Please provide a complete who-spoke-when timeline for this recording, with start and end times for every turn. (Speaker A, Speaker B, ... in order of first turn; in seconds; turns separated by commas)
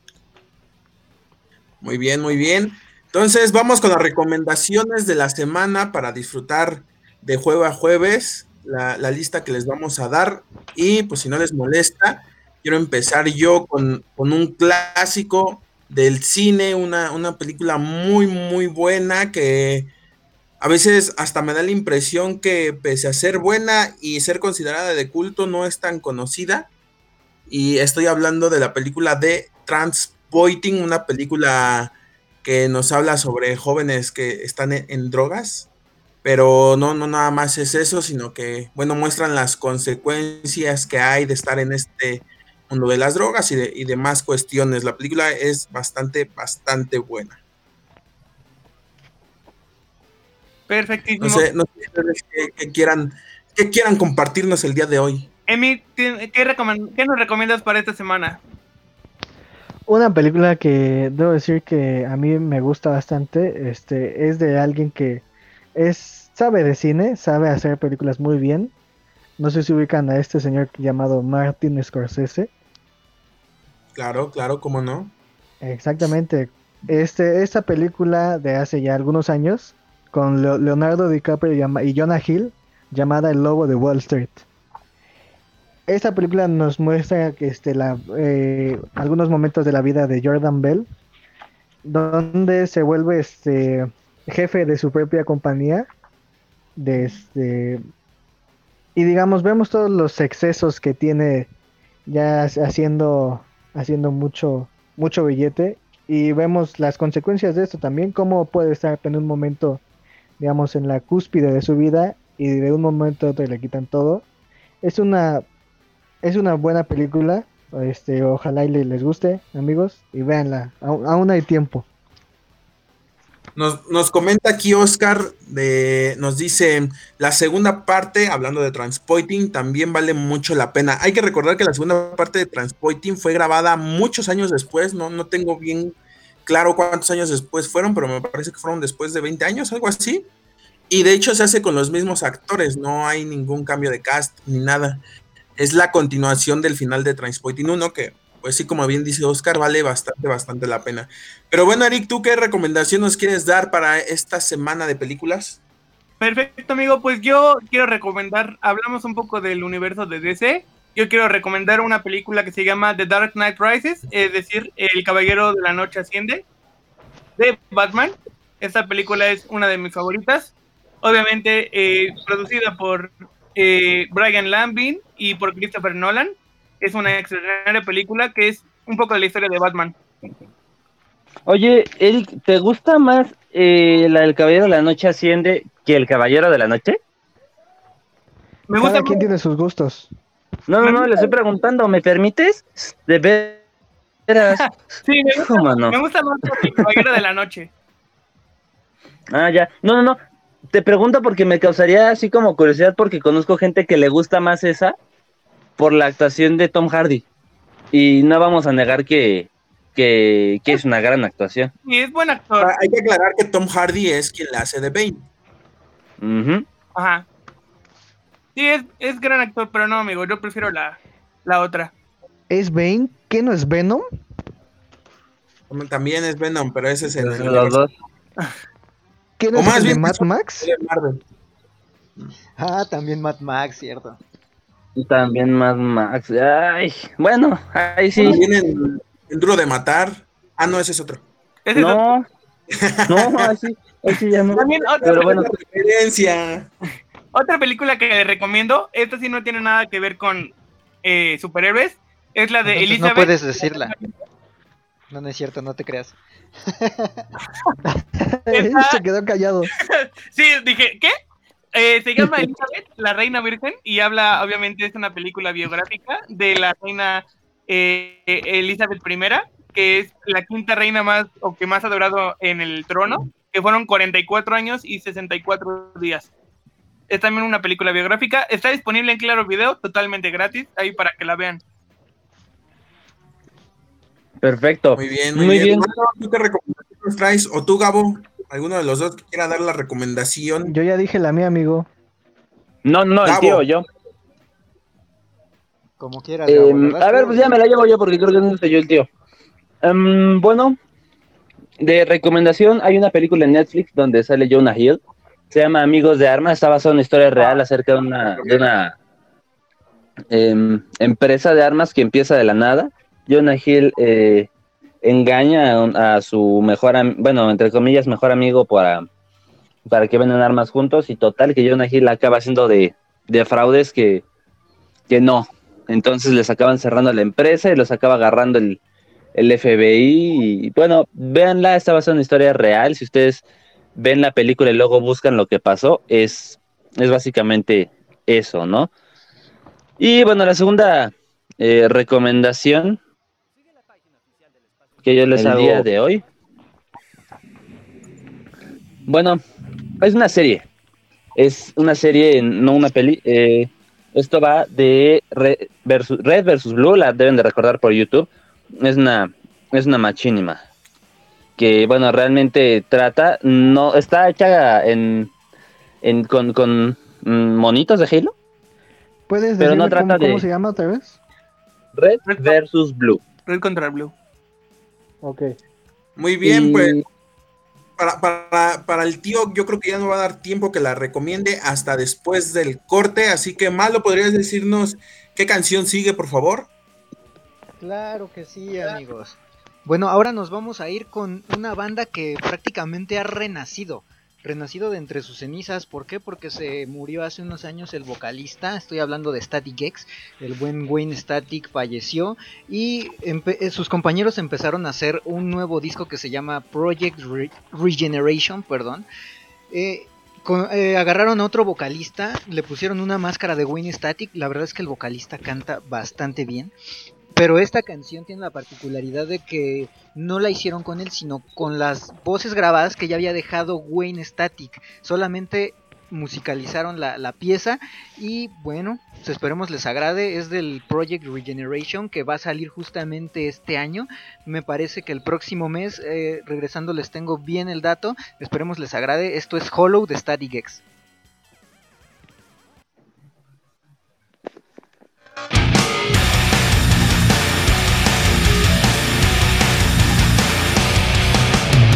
Speaker A: 1.8-19.9, Speaker A: 20.6-26.7, Speaker A: 27.5-35.7, Speaker A: 36.2-47.4, Speaker B: 50.7-51.4, Speaker A: 51.2-55.3, Speaker B: 55.5-58.4, Speaker C: 59.9-65.2, Speaker C: 65.8-68.7, Speaker C: 69.4-72.5, Speaker A: 73.9-75.1, Speaker C: 75.6-84.5, Speaker C: 85.9-90.9, Speaker C: 91.8-95.9, Speaker C: 96.8-97.8, Speaker C: 98.9-101.5, Speaker C: 102.1-109.8, Speaker C: 110.4-114.2, Speaker C: 114.8-115.4, Speaker C: 116.2-121.9, Speaker A: 123.5-135.9, Speaker A: 136.4-140.3, Speaker A: 140.9-145.0, Speaker A: 145.6-155.6, Speaker B: 156.2-166.4, Speaker B: 167.4-179.9, Speaker D: 181.4-187.0, Speaker B: 188.7-189.2, Speaker C: 188.8-190.1, Speaker D: 190.7-193.6, Speaker B: 190.8-191.3, Speaker D: 194.3-194.6, Speaker B: 194.5-197.7, Speaker D: 195.3-195.9, Speaker D: 199.3-200.2, Speaker D: 200.7-204.9, Speaker D: 205.8-207.2, Speaker D: 207.9-211.7, Speaker B: 211.9-212.7, Speaker A: 212.6-215.3, Speaker D: 216.2-216.7, Speaker B: 216.9-217.2, Speaker B: 218.6-221.9, Speaker C: 222.5-224.1, Speaker A: 225.7-227.8, Speaker D: 227.1-227.9, Speaker C: 229.4-230.7, Speaker A: 229.5-231.2, Speaker E: 232.6-234.2, Speaker D: 234.9-238.4, Speaker A: 238.1-241.2, Speaker B: 241.7-242.0, Speaker D: 241.8-242.2, Speaker A: 242.7-243.5, Speaker D: 243.1-245.5, Speaker B: 244.5-245.3, Speaker A: 245.0-246.7, Speaker B: 247.3-250.5, Speaker B: 251.0-254.1, Speaker E: 252.7-253.9, Speaker E: 255.1-257.2, Speaker C: 257.9-259.7, Speaker B: 258.5-259.0, Speaker B: 259.8-261.1, Speaker B: 261.7-276.3, Speaker B: 277.1-281.6, Speaker D: 284.4-285.9, Speaker A: 284.9-290.7, Speaker C: 290.6-291.9, Speaker D: 292.8-293.9, Speaker A: 293.2-293.6, Speaker E: 296.0-297.6, Speaker D: 296.5-299.1, Speaker D: 299.8-300.8, Speaker D: 301.8-305.0, Speaker D: 305.5-308.9, Speaker D: 310.3-314.5, Speaker D: 315.0-319.1, Speaker D: 319.9-324.2, Speaker D: 325.1-328.8, Speaker D: 329.3-333.4, Speaker D: 333.9-338.9, Speaker D: 340.0-343.0, Speaker D: 345.0-346.2, Speaker A: 345.4-345.8, Speaker D: 349.1-349.4, Speaker D: 350.0-350.6, Speaker D: 351.4-360.6, Speaker D: 361.6-365.3, Speaker D: 366.0-368.3, Speaker C: 369.3-371.2, Speaker D: 369.6-370.4, Speaker D: 371.9-373.2, Speaker B: 372.3-372.6, Speaker B: 373.4-374.1, Speaker C: 375.2-375.5, Speaker A: 376.2-377.0, Speaker D: 376.4-377.0, Speaker A: 378.0-386.7, Speaker E: 387.8-409.1, Speaker E: 409.7-416.7, Speaker E: 417.3-440.8